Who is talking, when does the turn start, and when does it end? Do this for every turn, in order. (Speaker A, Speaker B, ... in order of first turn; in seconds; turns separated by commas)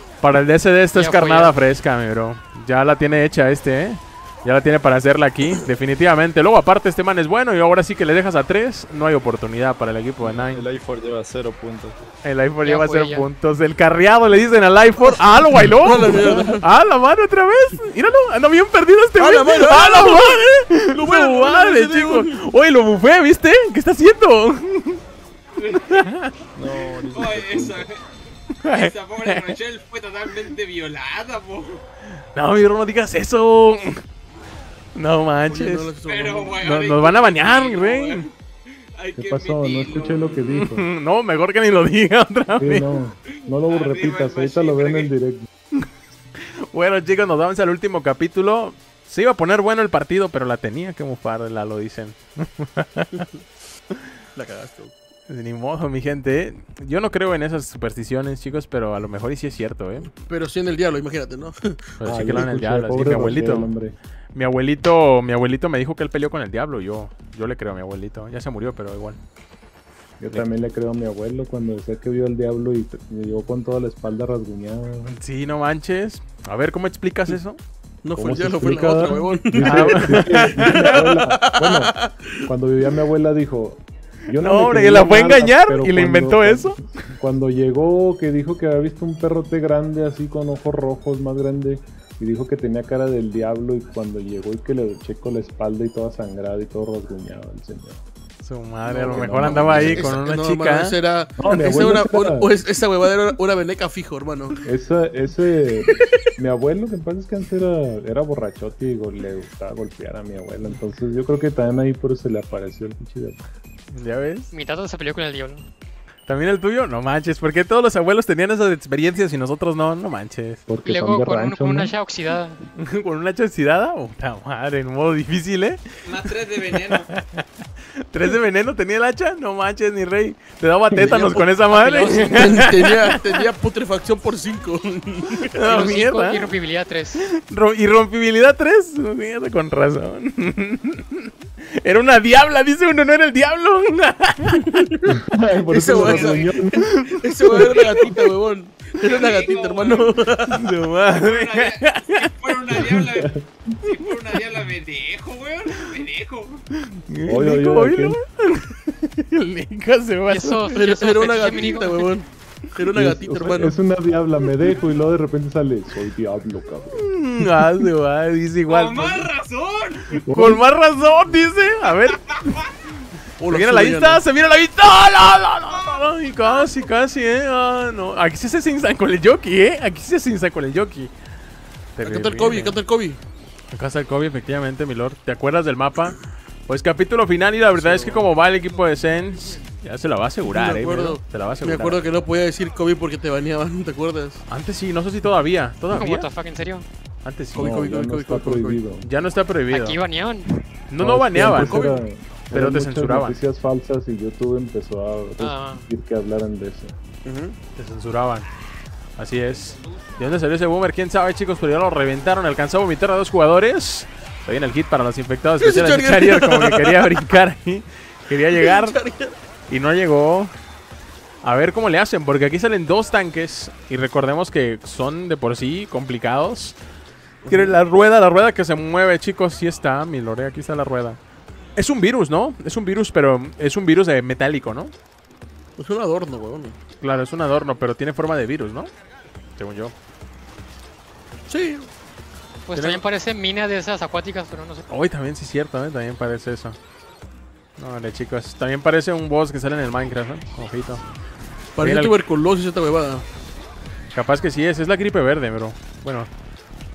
Speaker A: 0.2-10.6, Speaker B: 0.9-1.6, Speaker C: 10.2-12.0, Speaker A: 12.2-25.0, Speaker B: 12.6-13.3, Speaker D: 15.0-16.6, Speaker D: 19.2-22.3, Speaker E: 25.6-26.1, Speaker A: 25.9-26.3, Speaker C: 26.6-27.9, Speaker E: 27.1-28.0, Speaker A: 28.6-29.6, Speaker E: 28.6-31.8, Speaker A: 32.3-34.0, Speaker A: 34.9-35.9, Speaker D: 35.5-36.6, Speaker E: 36.0-38.3, Speaker A: 36.6-38.3, Speaker E: 39.0-40.5, Speaker F: 39.1-40.9, Speaker A: 40.5-42.9, Speaker F: 42.6-45.5, Speaker E: 43.3-45.1, Speaker A: 46.4-53.2, Speaker D: 54.3-54.9, Speaker A: 55.3-60.1, Speaker D: 60.2-62.5, Speaker A: 62.0-63.7, Speaker F: 62.0-64.0, Speaker A: 64.3-69.2, Speaker F: 70.2-75.2, Speaker A: 75.1-77.6, Speaker D: 78.0-82.4, Speaker F: 78.1-98.0, Speaker A: 79.6-80.8, Speaker A: 84.3-86.8, Speaker A: 98.4-101.0, Speaker D: 98.8-104.6, Speaker F: 99.1-100.2, Speaker F: 101.4-102.6, Speaker F: 104.6-113.5, Speaker D: 105.9-106.2, Speaker A: 113.9-114.5, Speaker B: 114.5-115.6, Speaker A: 116.3-120.6, Speaker F: 120.7-121.9, Speaker B: 120.8-122.6, Speaker A: 122.8-127.4, Speaker E: 126.0-127.1, Speaker A: 128.1-133.3, Speaker F: 130.9-131.4, Speaker B: 131.6-132.8, Speaker D: 132.3-135.9, Speaker A: 135.5-136.5, Speaker B: 135.6-137.2, Speaker A: 137.2-144.8, Speaker D: 144.8-150.6, Speaker F: 145.1-146.9, Speaker E: 146.0-146.5, Speaker A: 146.8-148.1, Speaker E: 147.5-148.1, Speaker E: 148.9-150.1, Speaker A: 150.5-153.0, Speaker E: 151.2-156.6, Speaker F: 152.8-153.4, Speaker A: 156.9-160.8, Speaker F: 157.2-158.2, Speaker B: 160.3-162.1, Speaker D: 160.7-163.7, Speaker F: 162.9-167.9, Speaker A: 166.9-169.3, Speaker E: 168.7-170.2, Speaker F: 170.3-170.6, Speaker A: 170.3-172.2, Speaker E: 172.1-172.7, Speaker D: 173.4-174.2, Speaker A: 173.5-181.1, Speaker E: 175.7-176.7, Speaker A: 181.9-182.8, Speaker D: 182.0-183.2, Speaker A: 183.7-186.2, Speaker A: 186.7-192.1, Speaker D: 187.8-188.3, Speaker D: 190.4-194.4, Speaker A: 194.5-196.3, Speaker B: 195.9-196.8, Speaker A: 197.2-197.8, Speaker D: 197.5-198.8, Speaker F: 197.5-199.1, Speaker A: 199.0-200.0, Speaker B: 199.7-200.7, Speaker A: 200.9-201.8, Speaker F: 201.0-206.9, Speaker D: 201.6-202.0, Speaker A: 202.5-203.4, Speaker B: 205.4-205.9, Speaker D: 207.2-207.6, Speaker A: 207.8-208.5, Speaker A: 209.2-219.0, Speaker D: 215.6-217.2, Speaker D: 218.5-219.3, Speaker A: 219.7-220.5, Speaker A: 221.4-226.8, Speaker D: 227.4-227.8, Speaker A: 227.5-231.2, Speaker A: 231.8-234.9, Speaker D: 235.8-236.8, Speaker A: 237.0-238.9, Speaker A: 239.6-239.9, Speaker D: 241.5-241.9, Speaker B: 242.7-244.8, Speaker A: 242.7-243.0, Speaker A: 244.9-246.8, Speaker A: 247.8-251.0, Speaker D: 251.8-253.3, Speaker A: 251.8-252.1, Speaker A: 254.1-256.3